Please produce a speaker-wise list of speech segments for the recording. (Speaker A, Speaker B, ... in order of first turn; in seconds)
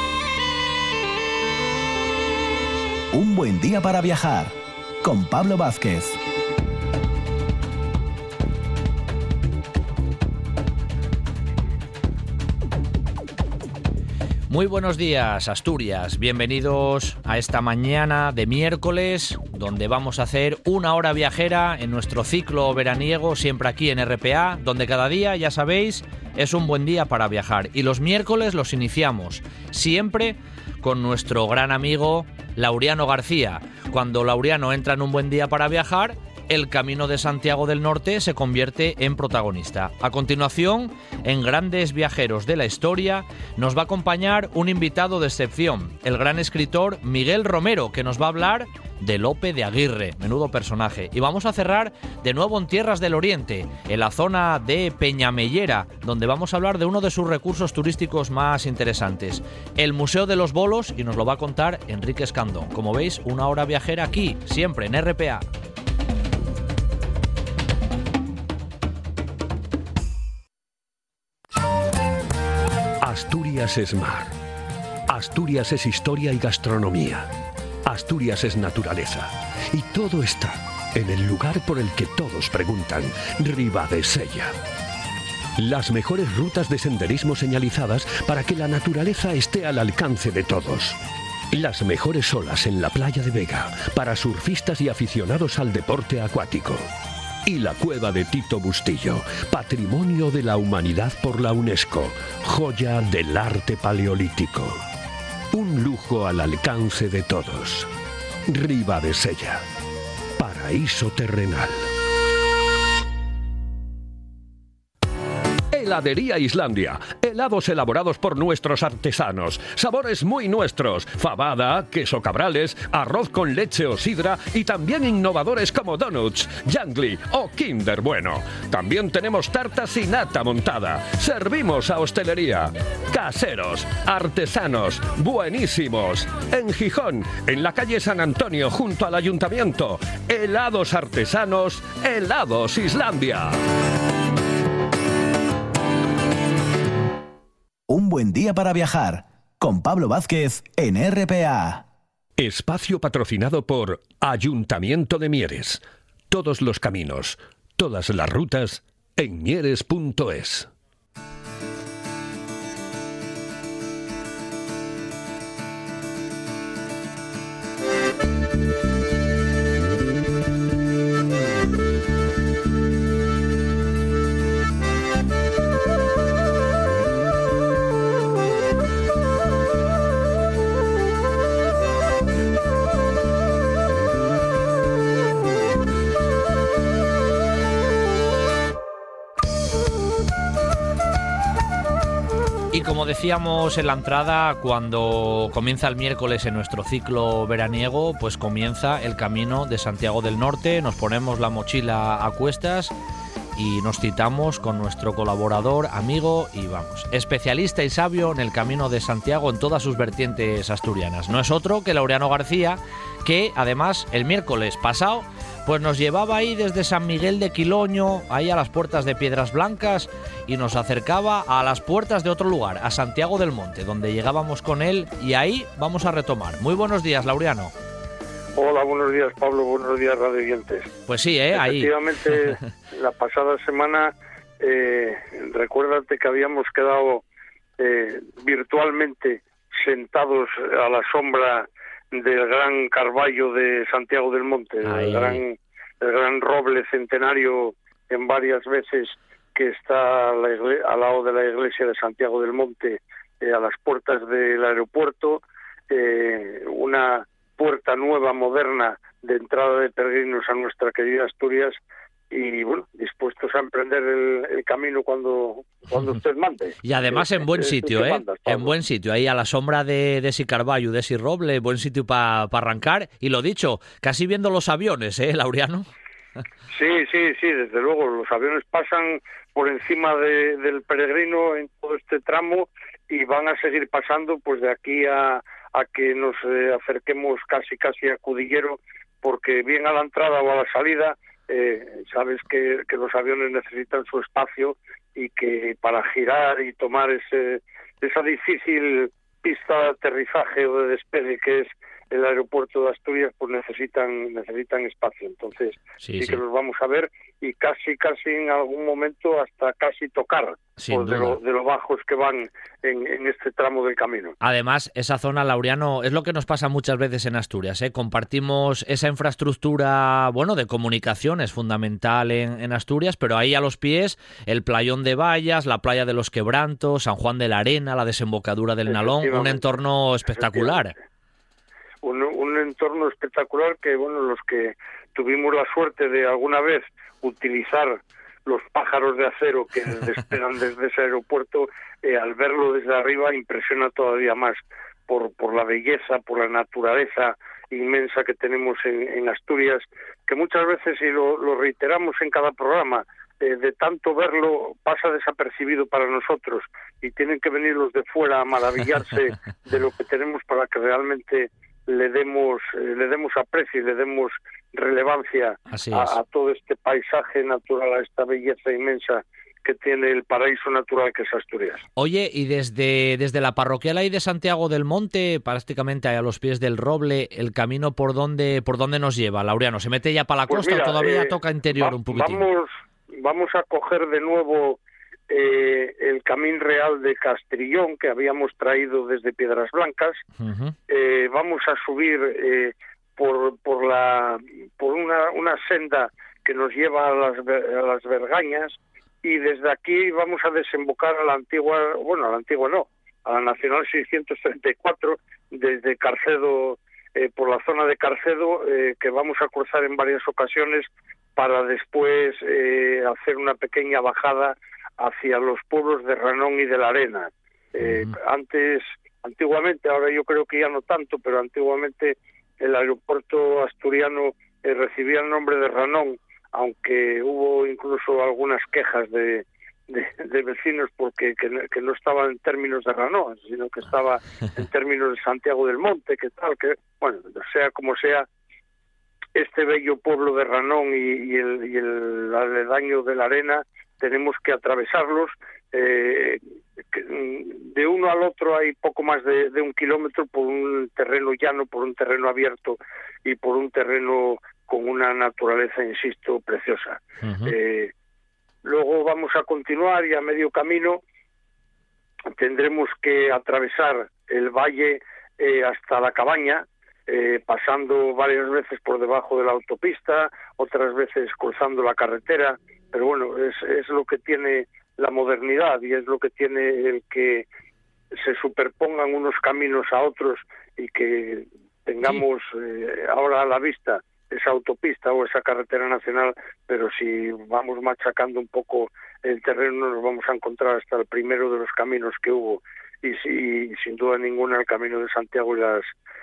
Speaker A: 3.1-6.2, 147.9-151.8
Speaker B: 14.5-65.4, 192.7-202.9, 203.6-227.7, 231.1-232.3, 244.8-245.4, 266.8-275.8, 306.0-306.4, 310.8-311.4, 314.4-330.9, 365.7-366.1, 372.0-382.4, 390.4-390.7, 417.8-418.1, 457.2-457.5
Speaker C: 73.0-74.3, 75.1-77.3, 77.8-84.5, 85.6-91.0, 91.5-96.8, 97.5-104.8, 105.5-107.9, 108.5-109.6, 110.4-111.9, 115.7-143.6, 152.4-160.7
Speaker D: 228.6-230.9, 231.5-237.2, 237.8-261.8, 262.3-268.7, 276.7-314.3, 328.9-329.6, 330.3-330.8, 332.0-371.8, 380.5-384.8, 385.3-390.2, 390.9-438.3, 439.3-446.4, 446.9-457.9, 458.6-461.0, 462.4-477.4, 478.2-495.9